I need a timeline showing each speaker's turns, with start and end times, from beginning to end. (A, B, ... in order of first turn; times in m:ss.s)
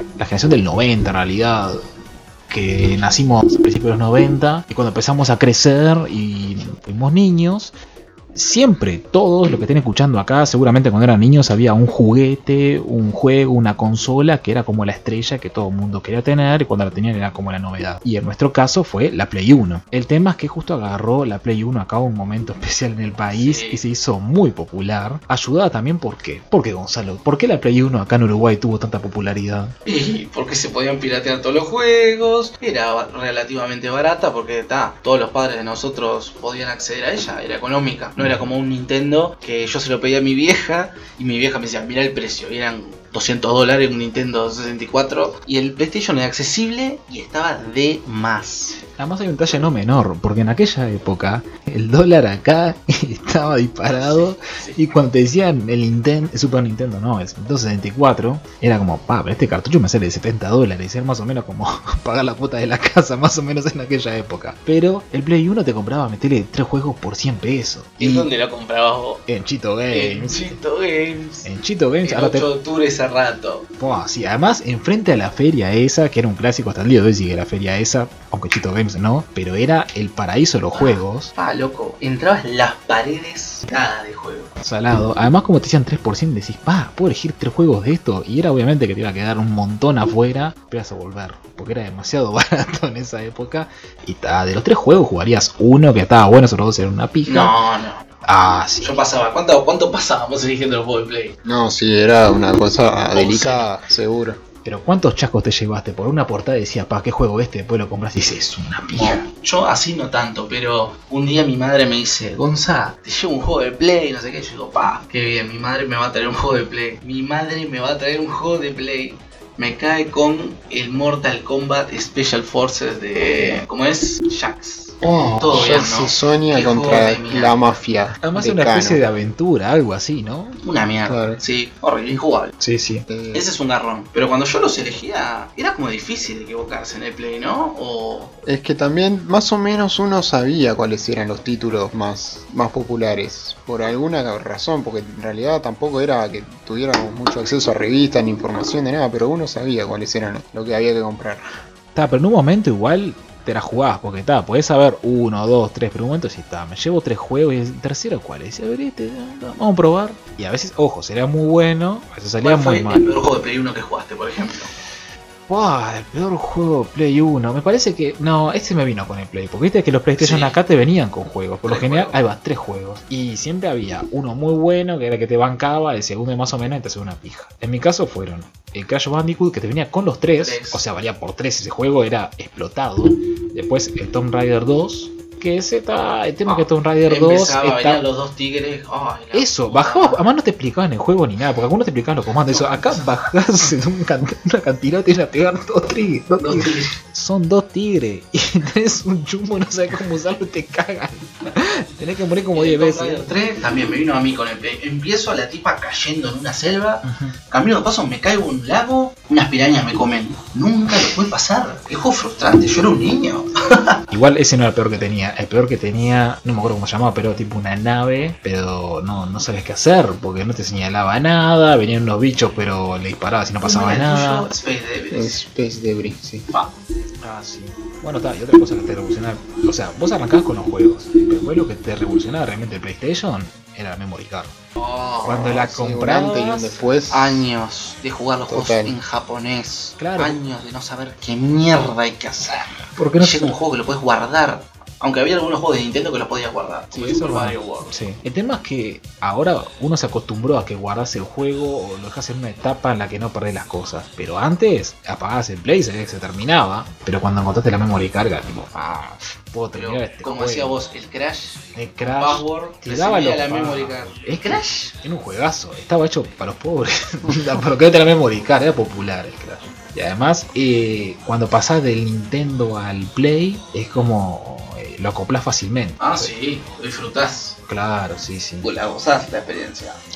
0:00.2-0:01.8 A
0:02.5-0:07.7 A
0:08.3-0:29.7 A
0:23.3-0:23.8 B
0:29.8-0:48.8 B
0:48.9-1:08.3 A
0:53.9-0:54.8 B
1:08.0-1:09.2 B
1:09.3-1:10.5 A
1:09.9-1:11.5 B
1:11.4-1:12.5 A
1:12.0-1:13.7 B
1:13.8-1:21.3 A
1:20.7-1:24.5 B
1:24.6-1:37.6 A
1:37.3-1:38.0 B
1:38.2-1:39.0 A
1:38.8-1:41.4 B
1:41.4-1:44.4 C
1:43.1-1:43.7 B
1:44.6-1:49.2 A
1:48.9-2:07.7 B
2:05.0-2:09.0 C
2:05.3-2:05.9 A
2:08.2-2:10.6 A
2:10.6-2:12.6 B
2:11.1-2:11.4 C
2:12.6-2:13.1 A
2:13.1-2:13.5 C
2:13.3-2:18.3 B
2:18.4-2:31.4 C
2:32.0-2:43.1 A
2:42.4-2:44.7 B
2:45.5-3:08.0 A
2:50.2-2:50.6 B
2:51.6-2:52.2 B
3:00.4-3:00.8 B
3:06.5-3:10.2 B
3:09.3-3:23.3 A
3:12.5-3:13.1 B
3:16.4-3:16.9 B
3:22.5-3:34.0 B
3:27.0-3:27.4 A
3:34.1-3:44.5 A
3:43.6-3:45.4 B
3:45.1-3:46.5 C
3:47.2-3:54.6 A
3:54.8-3:55.6 B
3:55.2-3:56.6 A
3:55.5-3:57.5 C
3:56.5-4:07.9 B
3:58.5-3:59.0 C
4:00.0-4:00.4 A
4:03.0-4:03.5 A
4:06.9-4:20.8 A
4:19.7-4:24.9 B
4:21.8-4:36.3 A
4:36.0-4:37.6 B
4:37.7-4:38.7 A
4:38.6-4:40.0 B